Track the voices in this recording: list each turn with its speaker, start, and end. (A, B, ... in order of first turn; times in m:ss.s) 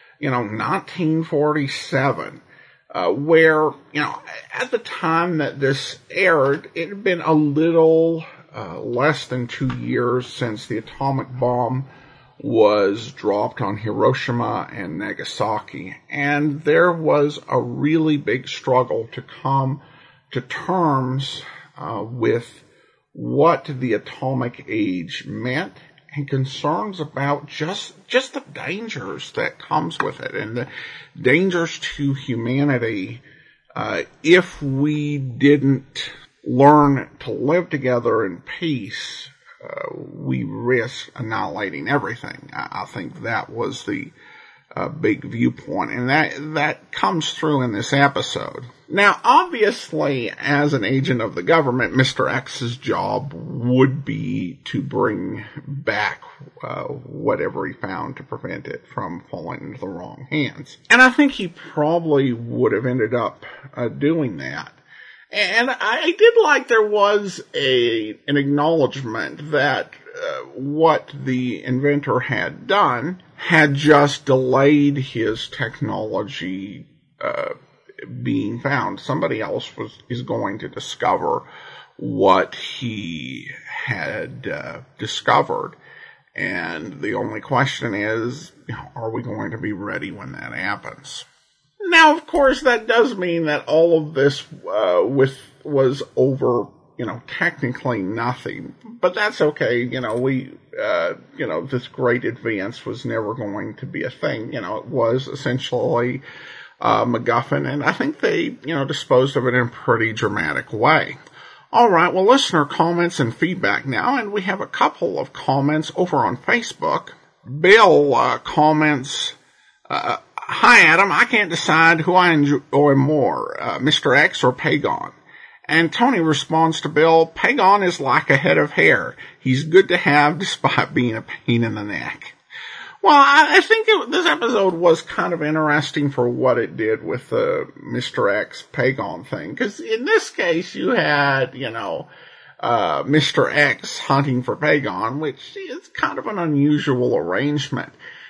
0:00.2-0:11.9 A
0:12.4-0:33.2 A
0:33.8-0:44.1 A
0:44.7-1:04.8 A
1:05.3-1:21.5 A
1:22.0-1:25.8 A
1:26.3-1:31.3 A
1:31.8-1:46.2 A
1:46.8-1:51.2 A
1:51.7-1:59.4 A
1:59.9-2:05.2 A
2:05.7-2:12.4 A
2:13.0-2:22.1 A
2:22.6-2:28.0 A